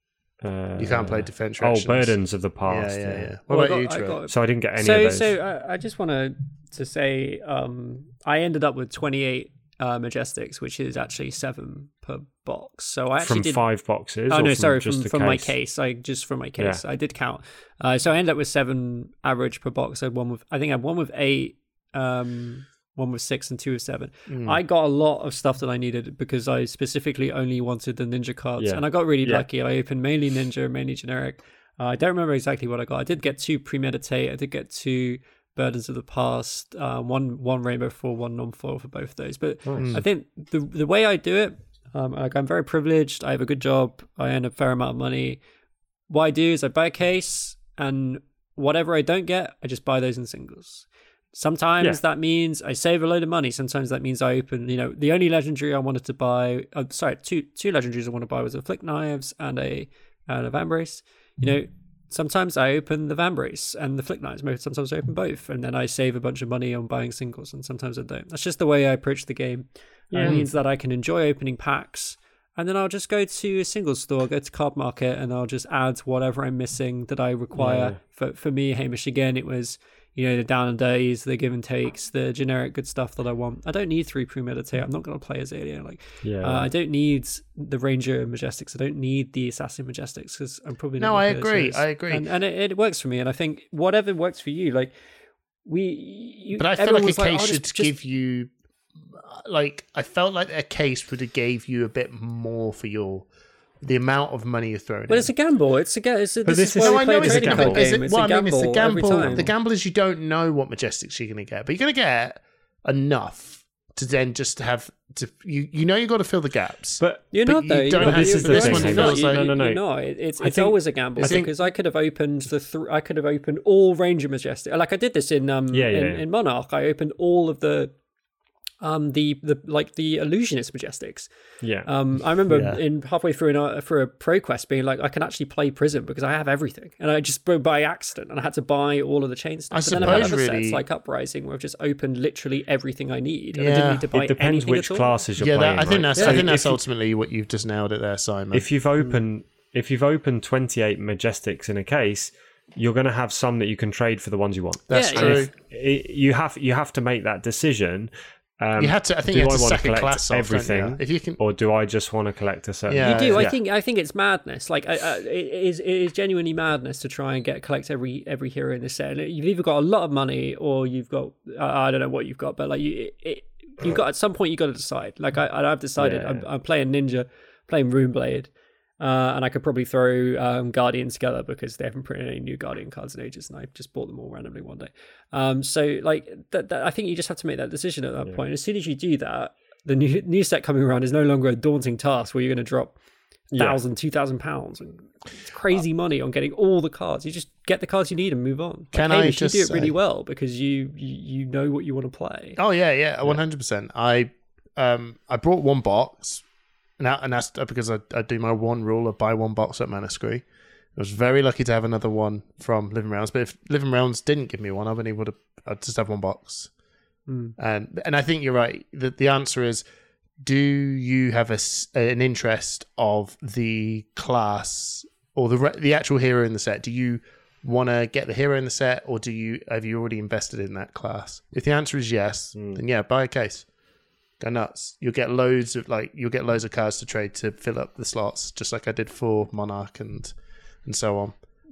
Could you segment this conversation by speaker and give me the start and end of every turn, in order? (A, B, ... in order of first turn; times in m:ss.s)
0:00.4-0:03.3 A
0:00.8-0:04.2 B
0:03.5-0:13.6 C
0:04.3-0:05.4 A
0:13.2-0:15.5 A
0:14.3-0:45.4 C
0:24.3-0:24.6 B
0:28.6-0:29.4 A
0:39.7-0:39.9 A
0:46.1-1:34.9 C
1:10.1-1:10.4 A
1:17.6-1:18.0 A
1:26.2-1:26.7 A
1:31.0-1:32.3 B
1:35.7-1:37.9 C
1:36.6-1:38.5 B
1:39.2-1:43.3 B
1:43.8-1:45.3 B
1:45.1-1:49.5 C
1:46.4-1:47.9 A
1:46.8-1:59.5 B
1:49.1-1:49.5 A
1:57.0-1:57.3 A
1:57.3-2:07.9 C
1:58.0-1:59.8 A
2:00.4-2:01.5 A
2:01.2-2:01.5 B
2:05.7-2:06.2 A
2:08.8-2:11.3 C
2:11.6-2:11.9 A
2:11.9-2:25.1 C
2:12.5-2:12.8 B
2:19.7-2:20.8 B
2:19.9-2:20.3 A
2:23.5-2:24.1 B
2:24.1-2:26.8 A
2:25.4-2:28.7 B
2:26.1-2:26.5 C
2:28.5-2:38.1 A
2:34.9-2:35.5 B
2:34.9-2:35.5 C
2:38.6-2:43.6 A
2:38.8-2:41.4 B
2:42.9-2:43.5 B
2:43.0-3:13.0 C
2:56.0-2:56.4 A
3:13.5-3:13.8 A
3:13.6-3:22.6 C
3:18.9-3:19.9 B
3:22.6-3:26.4 B
3:27.0-3:30.4 B
3:31.0-3:36.7 B
3:37.3-3:37.6 C
3:37.6-3:39.8 B
3:40.4-3:53.7 B
3:52.6-3:52.8 A
3:54.4-4:00.3 B
4:00.8-4:01.4 B